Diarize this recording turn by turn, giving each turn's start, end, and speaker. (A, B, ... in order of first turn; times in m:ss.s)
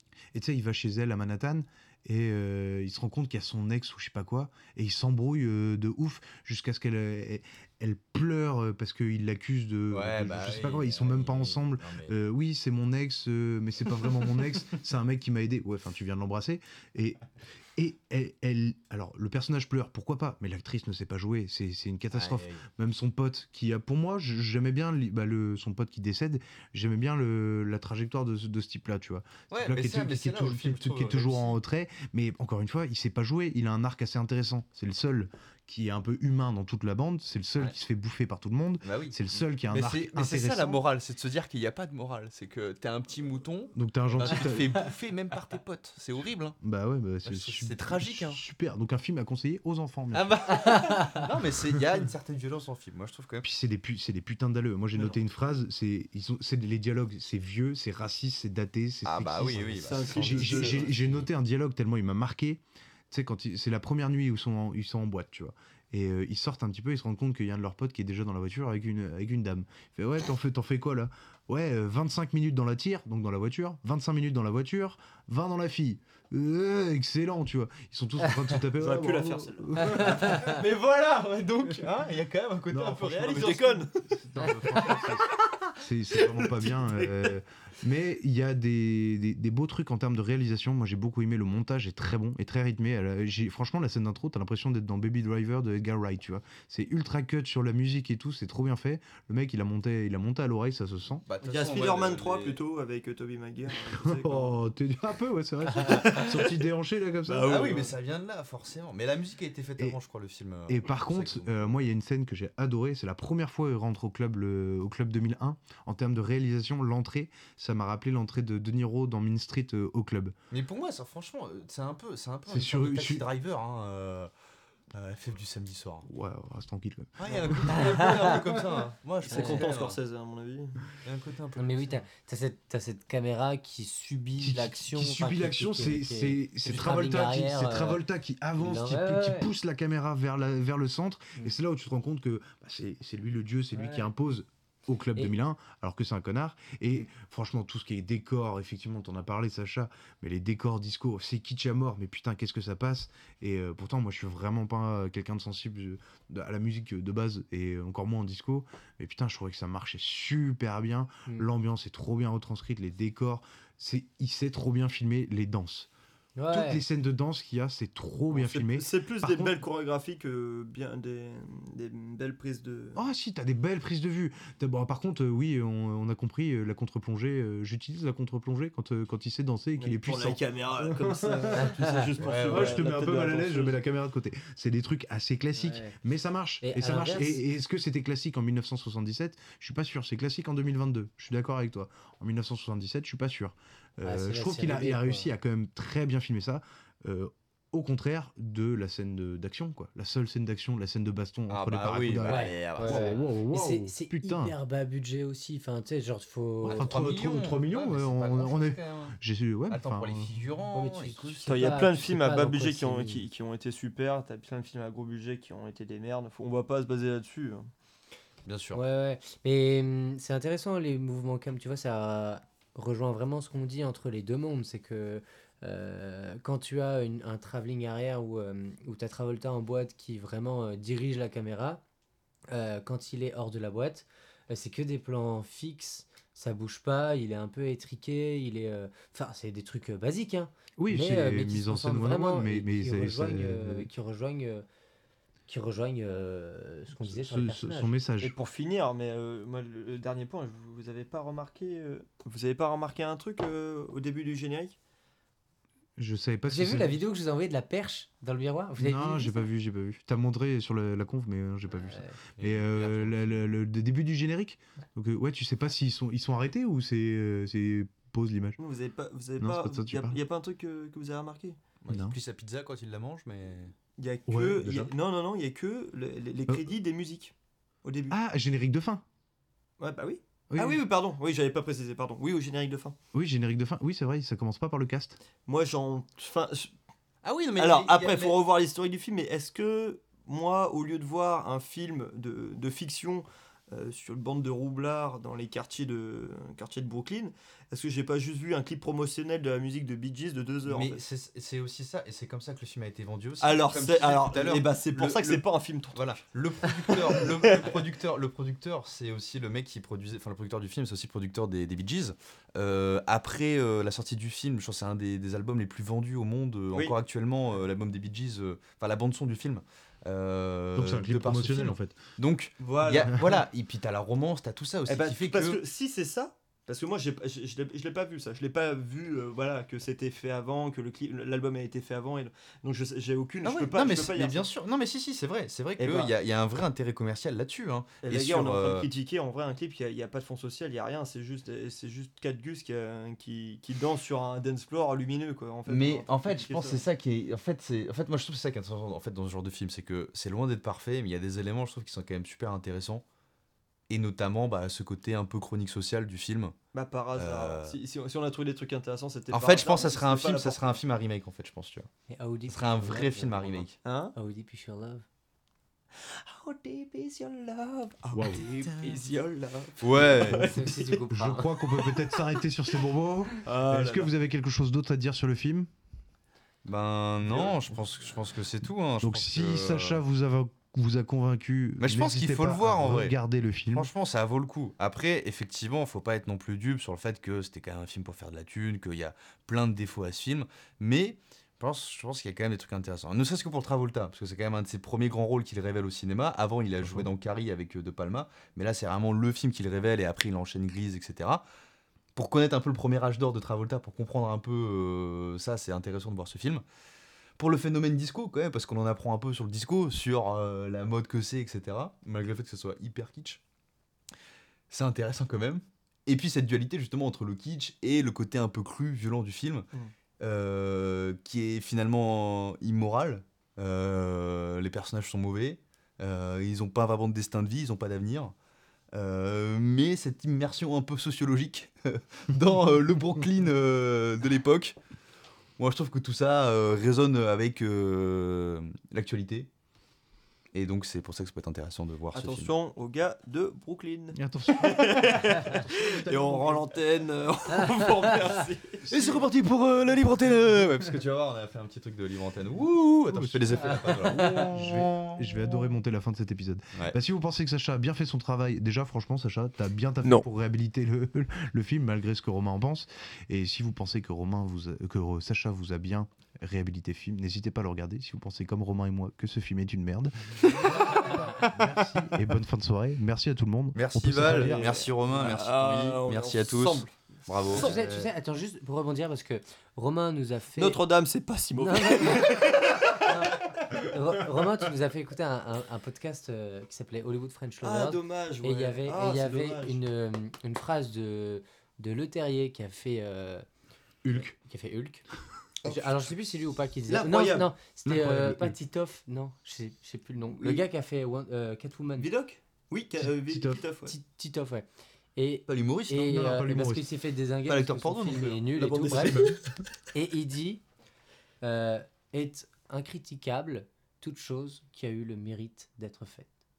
0:00.3-0:40.8 A
0:09.9-0:12.1 B
0:22.1-0:22.6 B
0:29.5-0:31.6 B
0:38.8-0:46.6 B
0:43.7-0:44.7 A
0:46.6-0:50.5 A
0:47.2-0:48.4 B
0:50.1-0:53.4 B
0:50.8-0:51.0 C
0:53.4-1:20.5 A
0:59.0-1:01.2 B
0:59.8-1:00.9 D
1:18.2-1:18.6 C
1:18.8-1:19.8 D
1:19.8-1:20.6 C
1:20.1-1:23.8 B
1:22.7-1:41.2 A
1:23.0-1:23.9 D
1:26.7-1:27.1 D
1:41.2-1:42.6 B
1:41.4-1:44.6 D
1:43.8-1:47.8 A
1:45.9-1:46.3 D
1:47.3-1:51.7 B
1:47.6-1:47.9 D
1:50.7-2:00.3 A
2:00.5-2:04.3 B
2:02.5-2:03.2 A
2:04.9-2:06.1 B
2:06.0-2:08.5 A
2:07.2-2:10.0 B
2:07.8-2:08.1 C
2:09.2-2:10.8 D
2:09.3-2:09.7 C
2:11.0-2:12.0 B
2:11.6-2:18.0 C
2:14.4-2:45.9 A
2:18.6-2:19.5 C
2:23.7-2:24.1 C
2:46.4-2:46.8 C
2:46.5-2:49.6 A
2:48.3-2:53.0 D
2:52.9-3:01.7 A
2:59.8-3:03.8 D
3:01.5-3:02.1 C
3:02.2-3:02.9 B
3:02.4-3:24.5 A
3:05.6-3:06.0 C
3:06.6-3:07.4 C
3:14.0-3:15.3 C
3:21.5-3:23.1 B
3:22.3-3:26.8 C
3:26.6-3:29.2 B
3:26.7-3:30.3 A
3:29.7-3:31.8 B
3:30.7-3:33.2 C
3:31.4-3:37.7 D
3:38.4-3:38.8 B
3:38.7-3:51.8 C
3:52.5-4:04.6 C
4:00.8-4:03.9 A
4:05.5-4:07.9 C
4:07.0-4:08.3 A
4:08.2-4:14.8 D
4:16.0-4:17.0 A
4:16.5-4:19.4 C
4:18.8-4:28.6 A
4:21.8-4:22.2 C
4:22.4-4:23.3 B
4:28.6-4:31.7 D
4:29.4-4:30.2 A
4:31.8-4:33.7 B
4:31.9-4:32.2 A
4:34.0-4:37.3 D
4:34.3-4:34.9 A
4:37.8-4:38.2 D
4:38.1-4:39.0 A
4:39.8-4:43.0 D
4:40.5-4:40.8 A
4:43.1-4:45.2 A
4:45.4-4:46.7 D
4:47.2-4:48.4 B
4:47.6-5:01.0 D
5:00.6-5:25.6 B
5:03.4-5:06.2 D
5:06.8-5:07.8 D
5:20.8-5:22.0 A
5:22.7-5:23.3 D
5:24.9-5:34.5 D
5:33.4-5:38.9 B
5:35.8-5:36.1 D
5:38.0-5:46.8 D
5:45.7-5:53.0 B
5:53.9-5:56.5 B
5:56.7-6:00.8 D
5:57.1-5:57.8 B
5:59.3-6:01.9 B
6:02.1-6:05.0 C
6:02.5-6:03.8 B
6:03.8-6:04.1 D
6:05.9-6:10.8 D
6:08.1-6:08.4 A
6:09.8-6:10.5 B
6:10.4-6:11.9 C
6:11.1-6:15.7 A
6:13.4-6:14.1 D
6:16.6-6:20.0 B
6:17.2-6:17.6 D
6:19.0-6:23.9 A
6:21.8-6:23.2 B
6:23.7-6:41.4 B
6:36.8-6:37.1 A
6:42.2-6:46.6 B
6:47.4-6:53.4 B
6:54.7-6:59.7 B
7:00.2-7:08.3 B
7:08.9-7:14.8 B
7:15.6-7:19.5 B
7:20.5-7:22.5 B
7:22.1-7:28.8 D
7:24.1-7:26.7 A
7:28.8-7:29.2 A
7:28.9-7:35.6 B
7:33.1-7:54.7 A
7:33.6-7:34.5 C
7:53.7-7:58.1 B
7:54.2-7:57.7 D
7:57.5-8:00.8 C
8:00.6-8:03.2 D
8:01.6-8:02.4 C
8:03.0-8:13.4 C
8:07.6-8:09.8 D
8:14.0-8:14.3 A
8:14.1-8:15.0 C
8:15.6-8:22.1 C
8:16.9-8:17.5 D
8:17.8-8:18.6 A
8:22.0-8:23.9 D
8:23.0-8:23.6 A
8:23.8-8:29.1 C
8:25.5-8:26.1 B
8:26.0-8:26.9 A
8:27.5-8:29.3 B
8:28.5-8:29.4 D
8:29.9-8:30.6 C
8:31.4-8:36.3 C